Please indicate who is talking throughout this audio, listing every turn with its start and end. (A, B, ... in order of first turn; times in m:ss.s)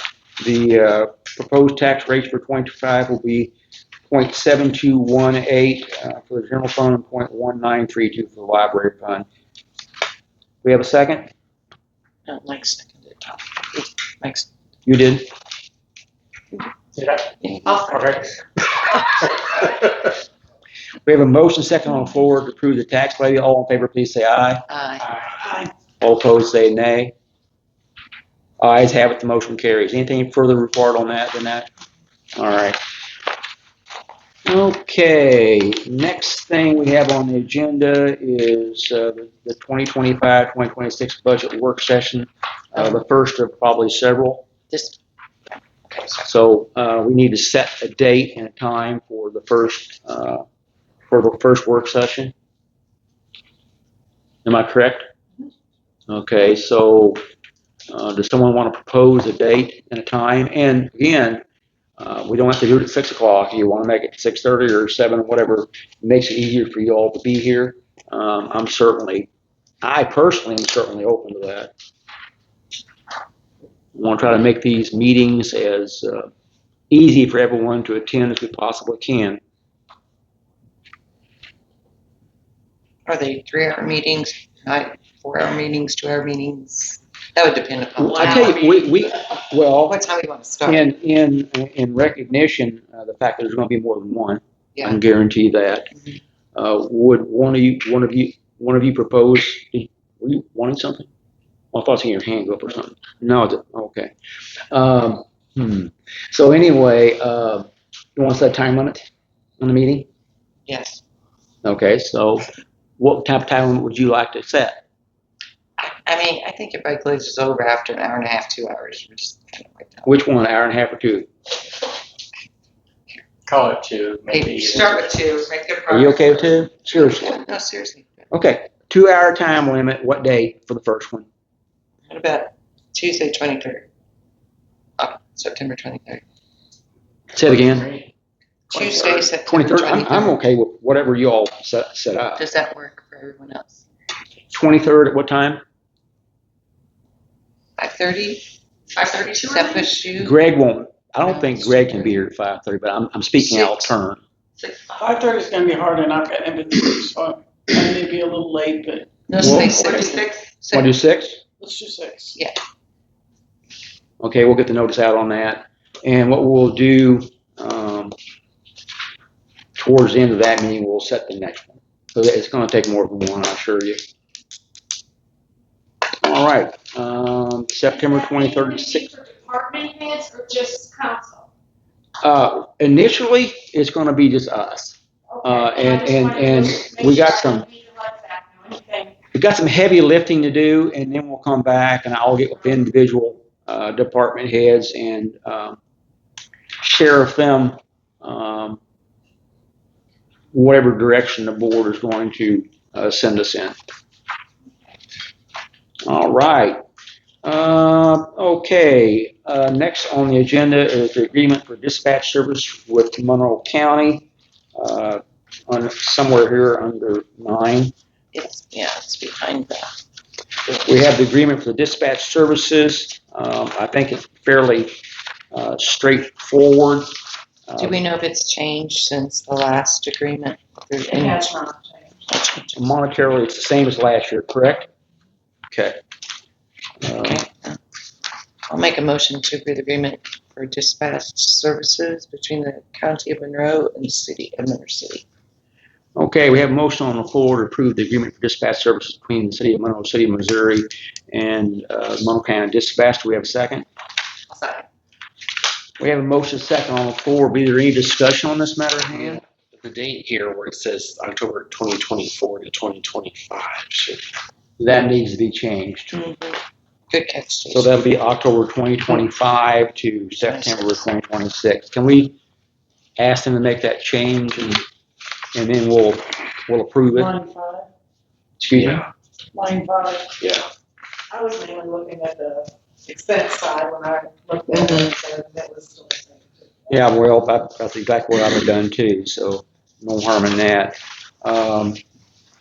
0:00.4-0:03.5 A
0:04.1-0:09.3 A
0:10.6-0:11.3 A
0:12.3-0:14.5 B
0:14.9-0:15.3 A
0:17.0-0:17.2 C
0:17.4-0:18.4 B
0:17.9-0:18.2 C
0:21.0-0:24.6 A
0:24.7-0:25.1 B
0:25.3-0:25.7 D
0:26.0-0:27.1 A
0:28.6-0:31.7 A
0:32.4-0:32.8 A
0:34.4-0:44.5 A
0:44.7-0:45.0 B
0:45.8-0:46.2 B
0:46.2-0:50.4 A
0:51.1-0:52.3 A
0:54.4-0:55.0 A
0:56.1-0:57.2 A
0:57.9-1:01.4 A
1:02.0-1:09.3 A
1:09.8-1:11.7 A
1:14.0-1:16.3 A
1:16.9-1:19.4 A
1:23.1-1:29.0 B
1:28.0-1:30.0 A
1:29.7-1:30.9 B
1:30.6-1:35.9 A
1:36.6-1:41.1 A
1:41.7-1:44.1 A
1:44.7-1:49.1 A
1:49.6-1:50.1 A
1:50.7-1:51.0 B
1:51.6-1:52.5 A
1:53.0-1:54.8 A
1:55.8-2:00.1 B
2:00.1-2:01.3 A
2:03.5-2:05.2 C
2:04.3-2:08.3 B
2:05.9-2:07.4 A
2:08.3-2:11.3 A
2:12.1-2:13.9 B
2:15.0-2:16.2 B
2:17.3-2:17.9 A
2:18.7-2:20.4 B
2:19.4-2:22.4 A
2:22.4-2:23.8 B
2:24.5-2:25.6 A
2:27.8-2:30.4 B
2:30.2-2:34.2 A
2:31.2-2:32.1 B
2:33.4-2:33.9 B
2:34.6-2:35.2 B
2:35.0-2:40.2 D
2:39.3-2:40.9 B
2:39.4-2:40.1 A
2:40.7-2:41.4 A
2:41.6-2:42.4 D
2:44.2-2:48.2 A
2:49.8-2:54.0 A
2:56.2-2:59.1 A
2:58.2-3:01.5 E
3:02.2-3:07.7 A
3:05.3-3:09.1 E
3:09.3-3:15.8 A
3:16.8-3:18.8 A
3:20.5-3:23.8 A
3:26.1-3:26.8 A
3:27.4-3:37.9 A
3:38.3-3:40.0 B
3:40.9-3:44.9 A
3:45.5-3:47.1 A
3:47.7-3:48.0 A
3:47.8-3:51.5 B
3:51.1-3:51.5 E
3:51.6-3:52.0 F
3:52.3-3:52.8 B
3:52.7-3:54.9 A
3:55.7-3:56.0 A
3:57.0-3:57.4 A
3:57.2-3:57.8 B
3:58.7-4:05.2 B
4:06.2-4:13.9 A
4:14.5-4:14.9 B
4:16.0-4:19.4 A
4:19.1-4:24.3 C
4:24.8-4:26.1 A
4:26.1-4:27.9 B
4:27.7-4:32.4 A
4:30.4-4:31.0 B
4:33.2-4:34.8 A
4:35.6-4:37.3 A
4:37.2-4:37.8 D
4:38.6-4:39.0 A
4:38.7-4:39.1 C
4:39.5-4:40.4 D
4:40.4-4:40.7 C
4:41.4-4:46.7 F
4:43.3-4:45.6 E
4:44.8-4:45.1 B
4:46.9-4:52.0 A